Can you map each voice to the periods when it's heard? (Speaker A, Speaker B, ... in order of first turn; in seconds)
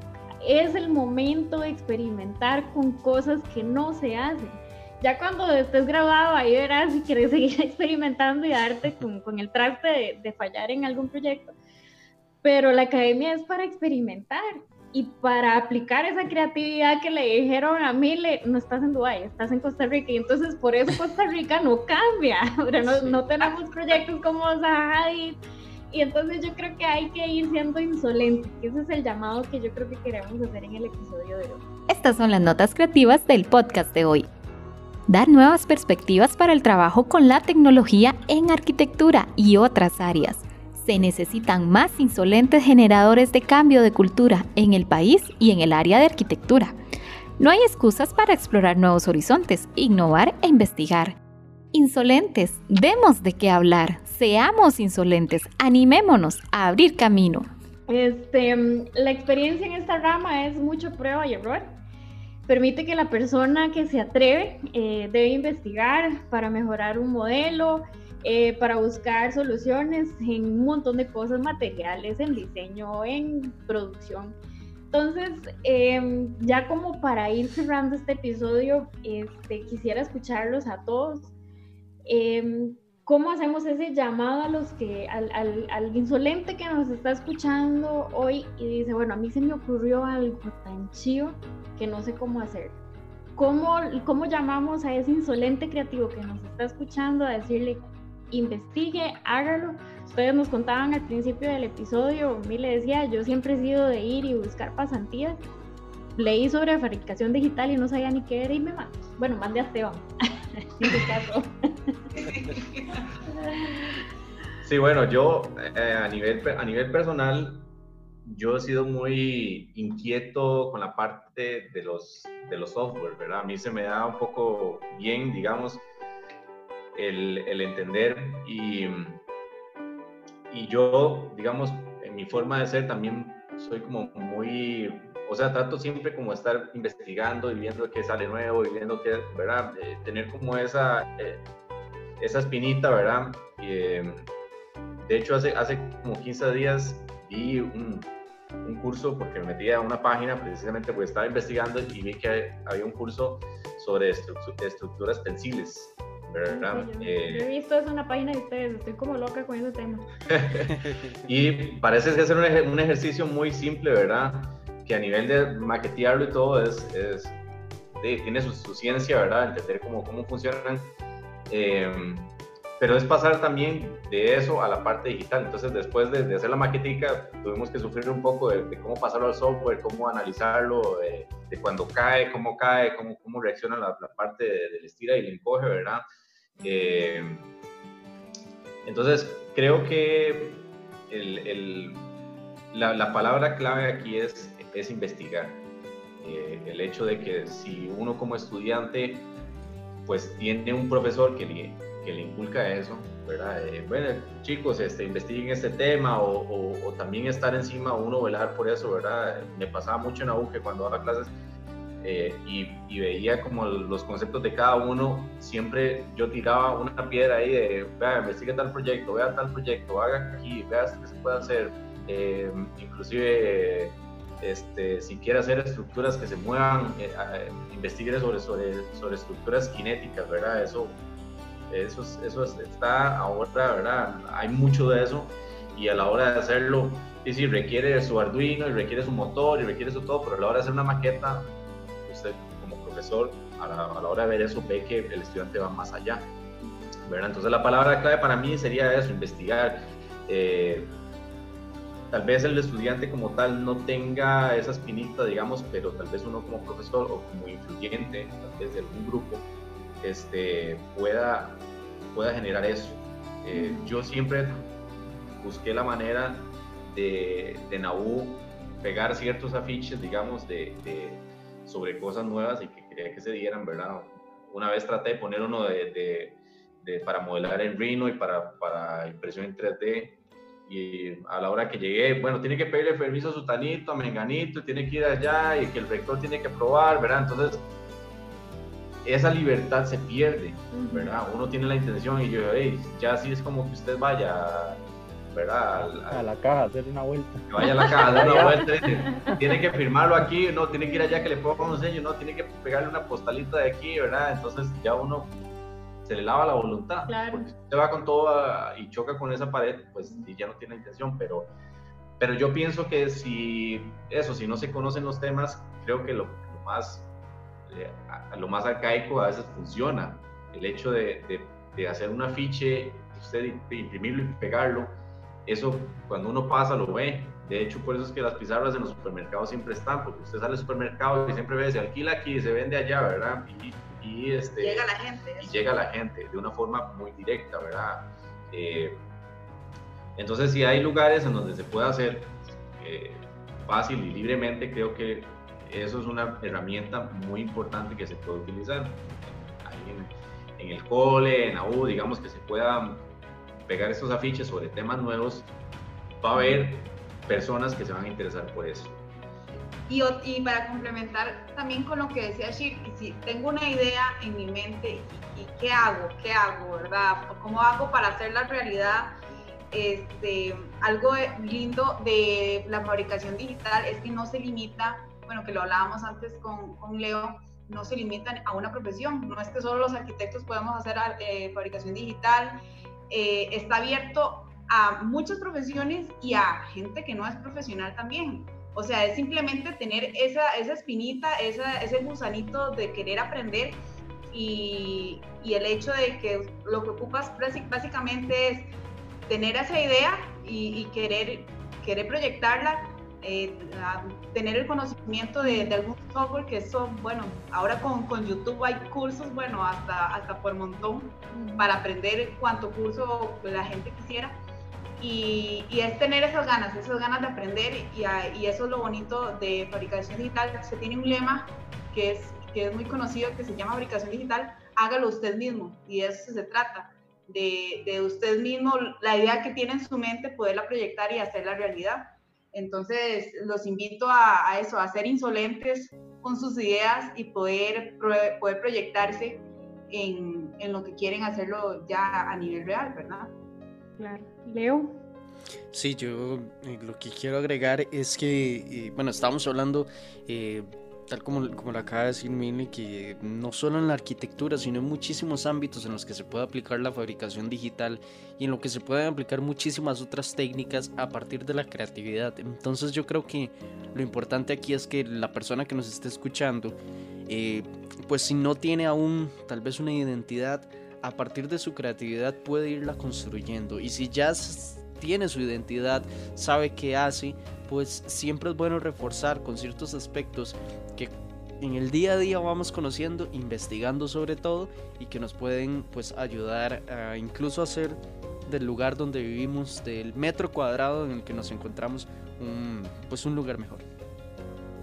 Speaker A: 0.4-11.5, 12.4-25.4, 25.9-31.6, 57.9-61.8, 62.5-74.3, 74.9-81.3, 82.0-92.8, 93.3-105.4, 106.2-112.1, 113.3-114.0, 156.5-160.1, 263.5-263.9, 290.7-291.1, 298.1-298.5, 299.1-299.3, 300.8-301.7, 307.1-307.5, 356.3-356.7, 405.4-405.8, 411.3-411.7, 444.0-445.0
Speaker B: 31.9-34.3, 35.1-46.8, 47.4-51.1, 51.7-57.5
Speaker C: 112.1-113.1, 334.6-335.6, 359.9-369.1, 369.7-382.6, 383.1-398.7, 399.3-414.4, 415.0-443.3
Speaker D: 114.6-117.7, 118.2-125.8, 126.9-129.2, 130.5-141.4, 142.2-144.3, 145.0-148.1, 148.6-157.5, 160.3-167.4, 168.0-170.9, 171.5-186.0, 186.6-187.5, 188.8-192.1, 192.7-195.6, 196.2-199.3, 200.1-211.3, 212.0-231.0, 231.7-241.5, 242.0-246.3, 247.1-251.0, 252.1-259.4, 260.0-264.7, 265.4-287.6, 289.0-296.2, 297.5-305.4, 306.0-311.5, 312.2-317.1, 317.7-324.9, 325.4-334.9, 335.4-339.0, 340.1-353.1, 353.6-355.5, 356.2-359.0
Speaker E: 160.7-161.2, 445.7-466.8, 467.3-493.9
Speaker F: 296.1-297.4, 298.1-298.7